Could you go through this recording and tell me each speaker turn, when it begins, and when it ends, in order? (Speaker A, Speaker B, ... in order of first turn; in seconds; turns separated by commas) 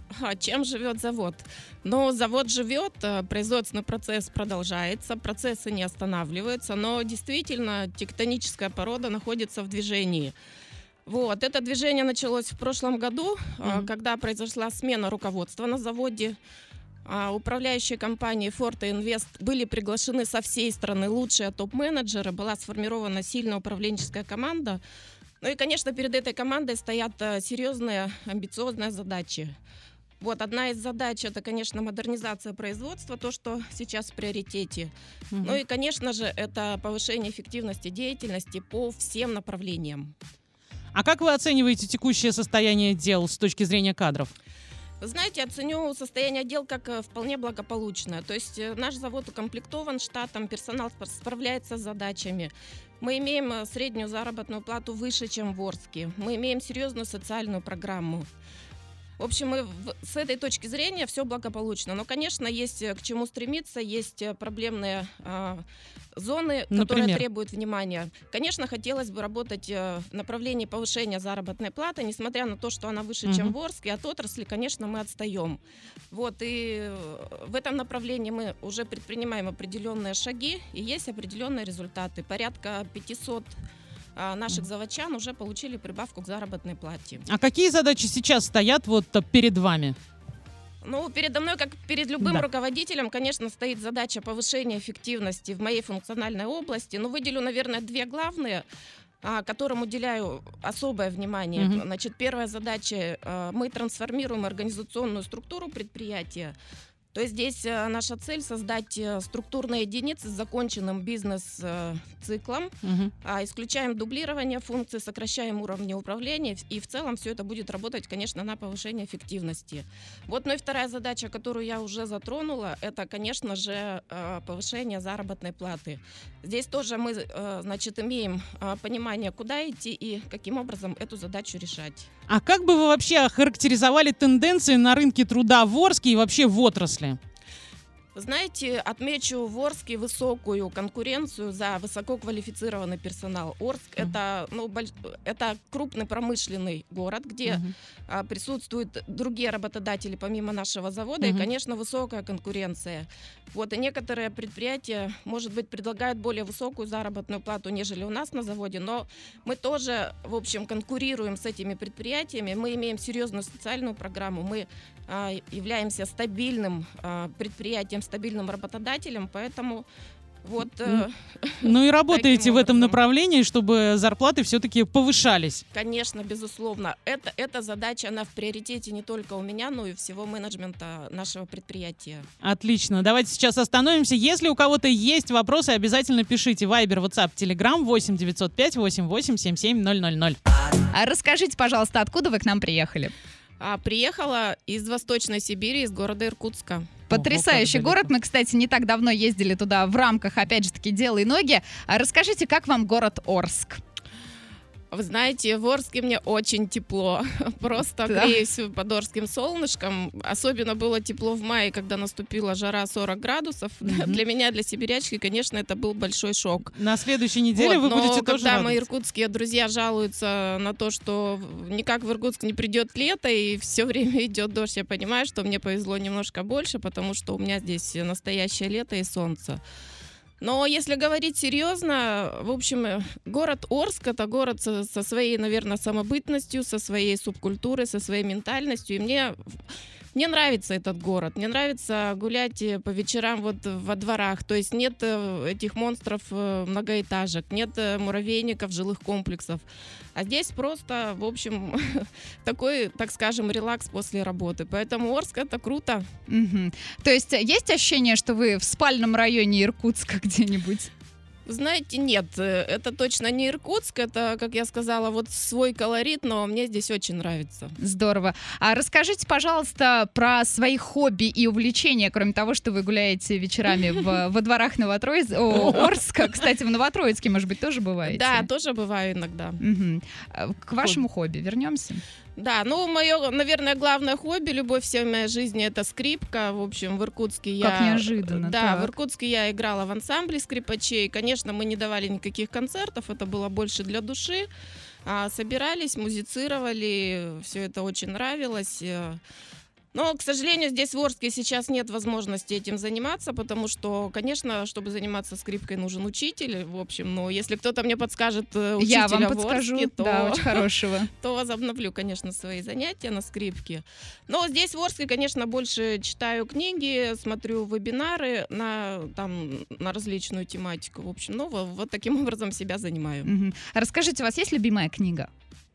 Speaker A: 0.1-10.3, Speaker A: 11.1-16.4, Speaker A: 17.1-24.8, Speaker A: 25.4-29.6, Speaker A: 30.2-40.1, Speaker B: 35.3-35.6, Speaker B: 40.9-44.3, Speaker A: 45.0-58.3, Speaker A: 59.2-65.6, Speaker A: 66.2-75.6, Speaker B: 66.7-67.2, Speaker B: 73.2-73.5, Speaker A: 76.1-83.5, Speaker A: 84.2-87.2, Speaker B: 87.3-90.0, Speaker A: 90.8-98.7, Speaker A: 99.2-106.5, Speaker A: 107.1-132.1, Speaker B: 112.8-113.1, Speaker B: 132.3-137.2, Speaker A: 138.2-169.8, Speaker B: 147.5-147.7, Speaker B: 151.2-151.5, Speaker A: 170.4-173.0, Speaker B: 171.6-175.6, Speaker A: 175.7-182.3, Speaker B: 182.4-190.4, Speaker C: 190.8-193.1, Speaker A: 193.6-197.1, Speaker C: 197.1-203.8, Speaker B: 197.1-198.0, Speaker A: 204.9-216.8, Speaker C: 208.1-208.4, Speaker B: 213.8-214.2, Speaker B: 216.8-218.8, Speaker A: 217.5-229.6, Speaker A: 230.4-239.5, Speaker A: 240.2-249.6, Speaker A: 250.2-256.1, Speaker C: 256.3-260.9, Speaker A: 261.5-267.8, Speaker C: 267.8-278.5, Speaker A: 275.5-275.9, Speaker B: 275.6-275.9, Speaker A: 278.1-279.6, Speaker C: 279.6-282.0, Speaker A: 282.4-294.5, Speaker C: 287.6-288.9, Speaker A: 295.1-299.2, Speaker A: 299.9-323.3, Speaker C: 308.8-311.1, Speaker C: 323.2-325.3